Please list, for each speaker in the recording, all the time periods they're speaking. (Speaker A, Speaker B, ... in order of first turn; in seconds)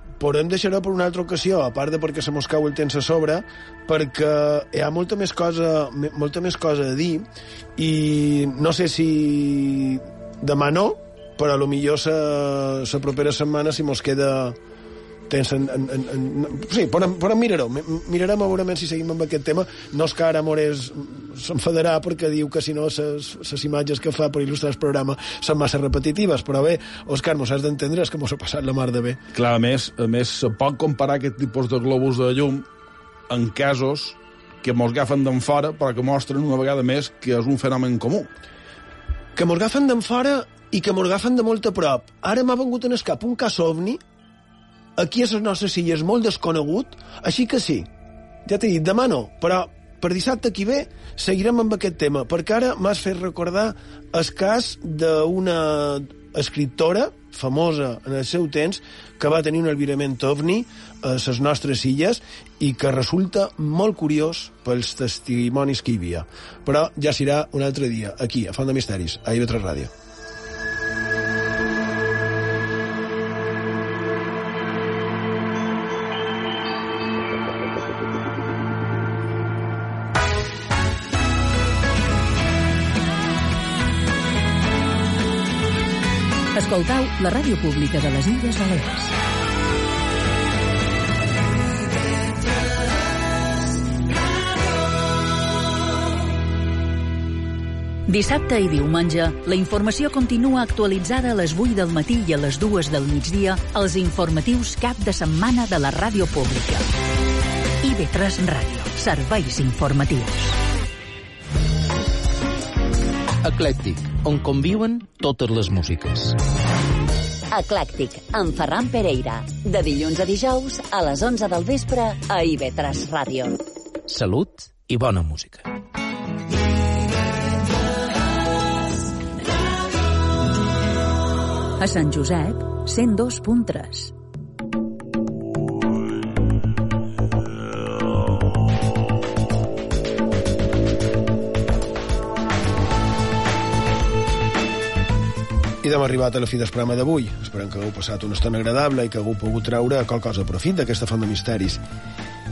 Speaker A: 0.2-14.6, 15.3-29.2, 39.4-44.0, 45.0-47.9, 48.5-69.9, 145.8-151.8
Speaker B: 29.3-32.7, 33.3-38.3
Speaker C: 86.5-89.1, 98.1-106.9, 107.8-110.6, 131.8-134.1
Speaker D: 113.4-116.4, 124.1-125.7
Speaker E: 117.5-123.6